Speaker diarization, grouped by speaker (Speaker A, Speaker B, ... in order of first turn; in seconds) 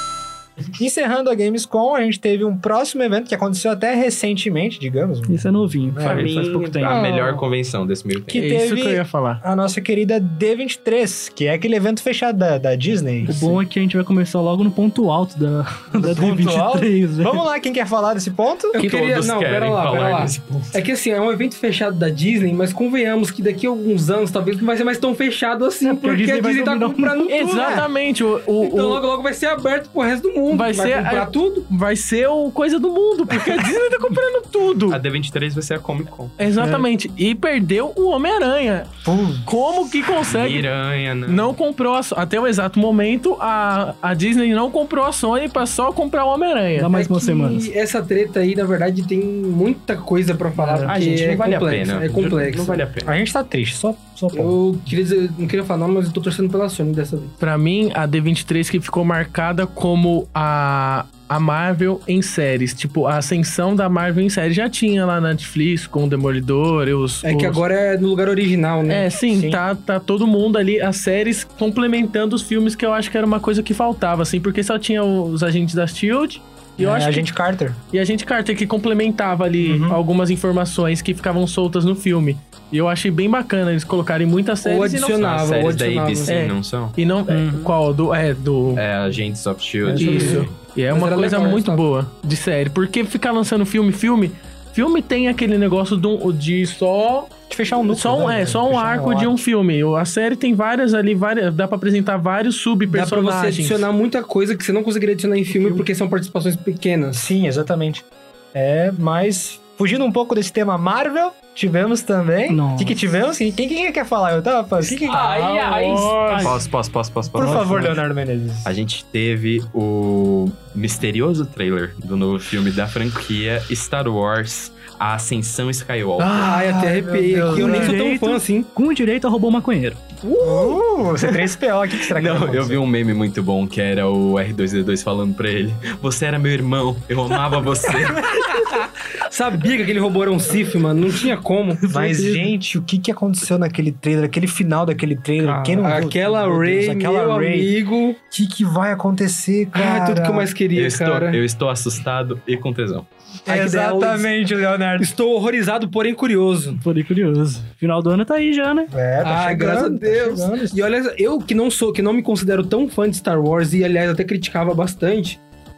Speaker A: 0.8-6.3, 8.3-13.6, 15.9-18.8, 27.5-27.9, 39.0-39.5, 53.0-54.6, 69.3-69.6, 76.8-77.8, 79.6-80.0, 97.5-99.3, 107.1-115.5, 117.3-118.8, 126.2-128.0, 130.4-132.8, 141.9-147.7, 148.3-150.5, 153.4-155.1, 158.9-160.8
Speaker B: 5.3-7.0, 13.2-17.4, 25.8-27.5, 36.6-36.9, 46.8-47.7, 50.5-51.0, 87.3-87.7, 89.9-90.5, 112.5-113.0, 116.2-116.6, 117.4-117.9, 127.5-130.0, 141.8-142.5, 145.4-145.8, 156.8-158.9
Speaker C: 6.0-8.5, 18.8-20.7, 34.9-36.4, 40.2-41.5, 50.9-53.1, 85.2-87.0, 88.7-90.5, 116.4-117.9, 118.6-126.5, 132.1-138.5, 150.7-153.1
Speaker D: 6.8-7.4, 18.7-27.9, 28.6-31.7, 46.9-52.8, 54.3-57.4, 67.2-69.1, 84.6-86.4, 90.0-90.3, 90.9-91.8, 102.9-107.2, 115.0-116.2, 126.4-128.7, 130.2-130.8, 139.3-141.8, 145.8-148.2, 149.7-151.4, 153.5-154.3, 155.0-156.8, 159.2-165.4
Speaker E: 8.3-9.4, 27.3-29.0, 30.5-35.0, 36.4-38.9, 39.4-40.7, 41.2-46.9, 57.4-67.6, 68.9-77.3, 77.9-85.3, 86.3-88.8, 89.9-103.8, 115.0-116.6